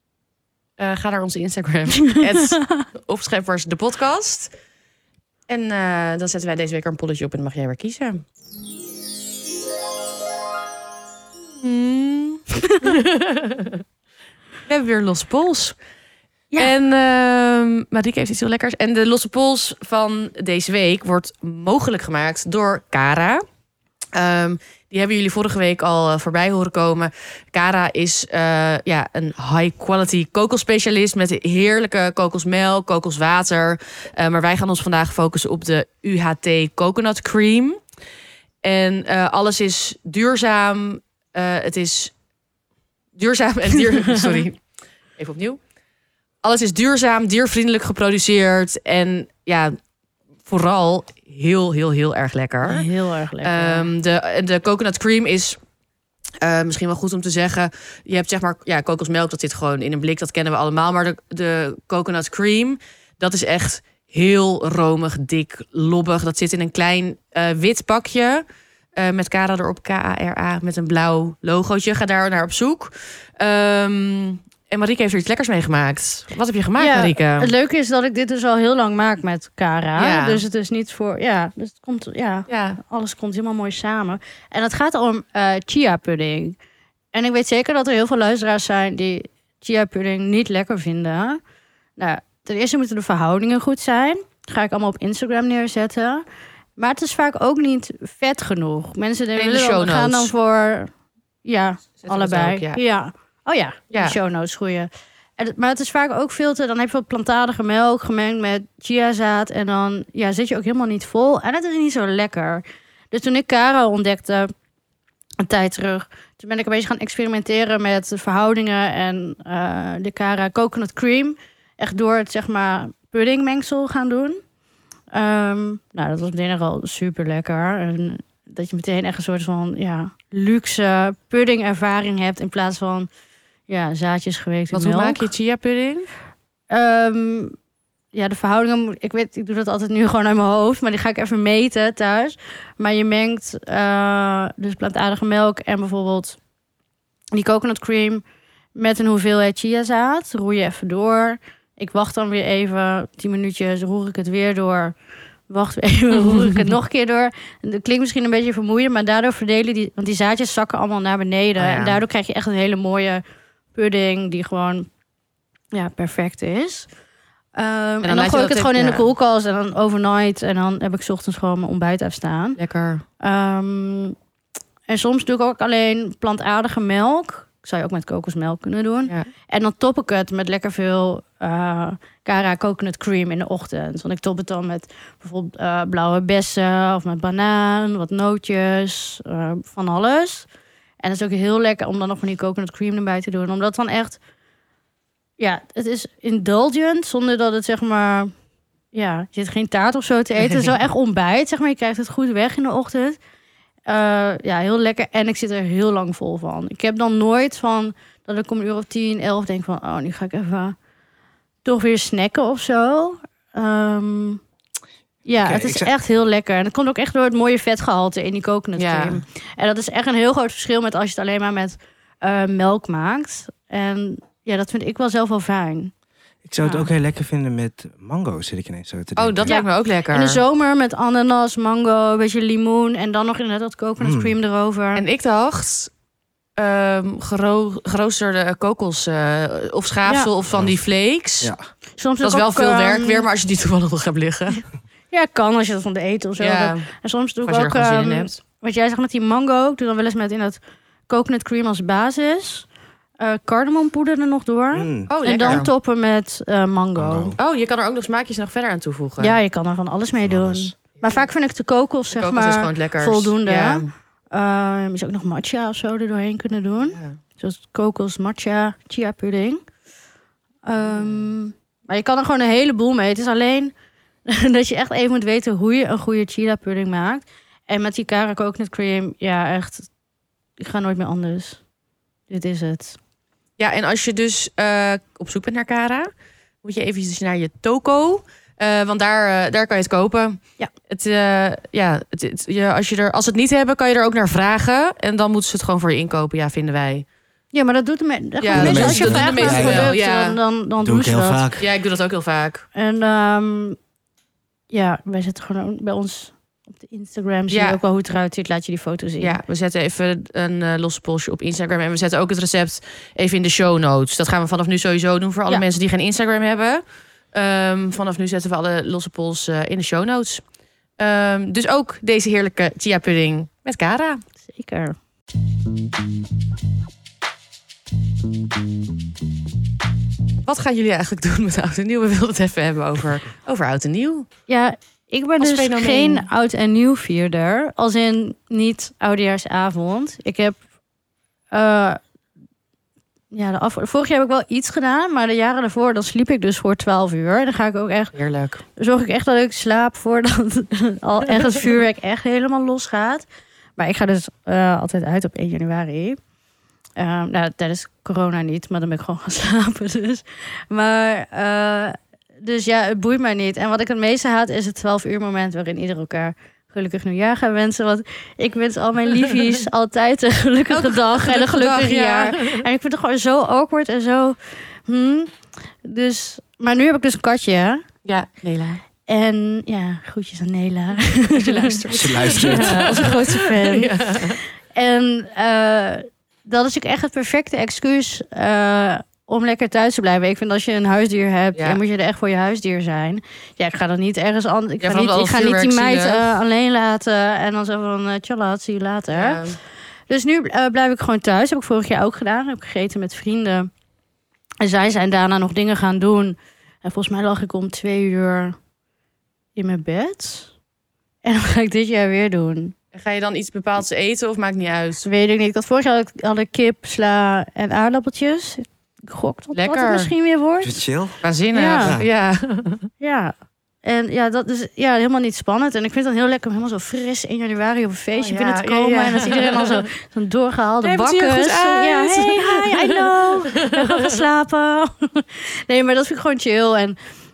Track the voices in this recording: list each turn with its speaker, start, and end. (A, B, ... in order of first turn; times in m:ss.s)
0:00.8-0:04.5 A
0:02.1-0:02.8 B
0:05.5-0:08.2 A
0:11.5-0:13.8 A
0:14.7-0:15.8 A
0:16.6-0:23.4 A
0:24.1-0:37.8 A
0:38.6-0:42.1 A
0:43.2-0:44.6 A
0:45.2-0:45.6 A
0:46.4-0:49.8 A
0:50.4-0:52.9 A
0:52.6-0:53.9 B
0:53.4-0:55.6 A
0:56.4-1:08.4 A
1:09.0-1:17.5 A
1:16.8-1:26.6 B
1:20.0-1:20.4 A
1:22.5-1:22.8 A
1:27.1-1:31.4 B
1:32.0-1:36.2 B
1:36.8-1:40.9 B
1:39.4-1:40.3 A
1:41.4-1:54.5 B
1:42.0-1:42.8 A
1:43.9-1:44.2 A
1:55.4-2:04.4 B
2:05.1-2:13.1 B
2:13.7-2:15.3 B
2:14.7-2:16.1 A
2:16.7-2:17.5 B
2:18.1-2:26.4 B
2:27.3-2:28.2 B
2:28.8-2:35.0 B
2:35.5-2:43.2 B
2:41.6-2:42.0 A
2:43.7-2:44.9 B
2:45.7-2:46.9 B
2:47.6-2:52.6 B
2:48.0-2:49.1 A
2:52.6-2:53.0 A
2:53.2-2:54.2 B
2:54.9-3:10.5 B
3:11.0-3:14.2 B
3:15.4-3:18.3 B
3:18.9-3:23.2 B
3:23.9-3:30.8 B
3:31.6-3:34.4 B
3:35.3-3:45.9 B
3:35.4-3:35.9 C
3:38.8-3:39.2 A
3:46.4-3:49.5 C
3:49.2-3:50.4 A
3:49.5-3:55.0 B
3:54.0-3:54.3 C
3:55.0-3:55.9 A
3:56.6-4:01.5 A
4:00.5-4:00.8 C
4:02.0-4:03.3 B
4:02.2-4:04.6 A
4:05.1-4:10.6 B
4:06.4-4:06.9 A
4:07.4-4:08.4 A
4:11.1-4:12.7 B
4:13.2-4:17.4 B
4:14.7-4:15.7 C
4:15.1-4:15.7 A
4:17.0-4:17.4 C
4:17.4-4:19.4 A
4:19.2-4:29.6 B
4:20.2-4:20.7 C
4:21.0-4:21.3 A
4:22.1-4:23.9 A
4:26.9-4:27.2 A
4:30.6-4:33.7 B
4:30.8-4:31.3 A
4:34.3-4:39.9 B
4:40.6-4:41.6 B
4:42.3-4:43.0 B
4:43.6-4:46.1 A
4:46.6-4:57.1 A
4:57.5-5:01.5 B
4:58.4-5:00.4 A
4:58.5-4:59.9 C
5:00.8-5:01.7 C
5:01.6-5:02.6 A
5:02.8-5:03.8 B
5:04.7-5:09.4 B
5:07.5-5:07.8 A
5:09.2-5:16.8 A
5:17.3-5:20.4 A
5:21.0-5:24.2 A
5:24.5-5:25.0 B
5:30.4-5:34.3 A
5:34.5-5:40.6 B
5:35.4-5:36.3 A
5:41.5-5:42.0 B
5:43.3-5:48.2 B
5:48.1-5:48.6 A
5:48.8-5:53.3 B
5:53.8-5:56.2 B
5:57.0-6:15.3 B
6:10.7-6:12.6 A
6:15.8-6:17.8 B
6:18.0-6:18.8 A
6:19.1-6:39.4 B
6:21.4-6:24.4 A
6:21.9-6:23.1 C
6:31.6-6:31.8 A
6:34.8-6:36.3 A
6:39.1-6:39.6 A
6:40.1-6:43.7 B
6:44.6-6:48.6 B
6:49.6-6:50.5 B
6:51.2-6:52.8 B
6:52.9-6:55.1 A
6:55.0-7:00.8 B
6:59.5-7:00.1 A
7:00.6-7:01.2 C
7:01.2-7:02.9 A
7:01.5-7:02.0 B
7:01.8-7:02.1 C
7:03.0-7:17.0 B
7:08.1-7:09.9 A
7:10.8-7:14.2 A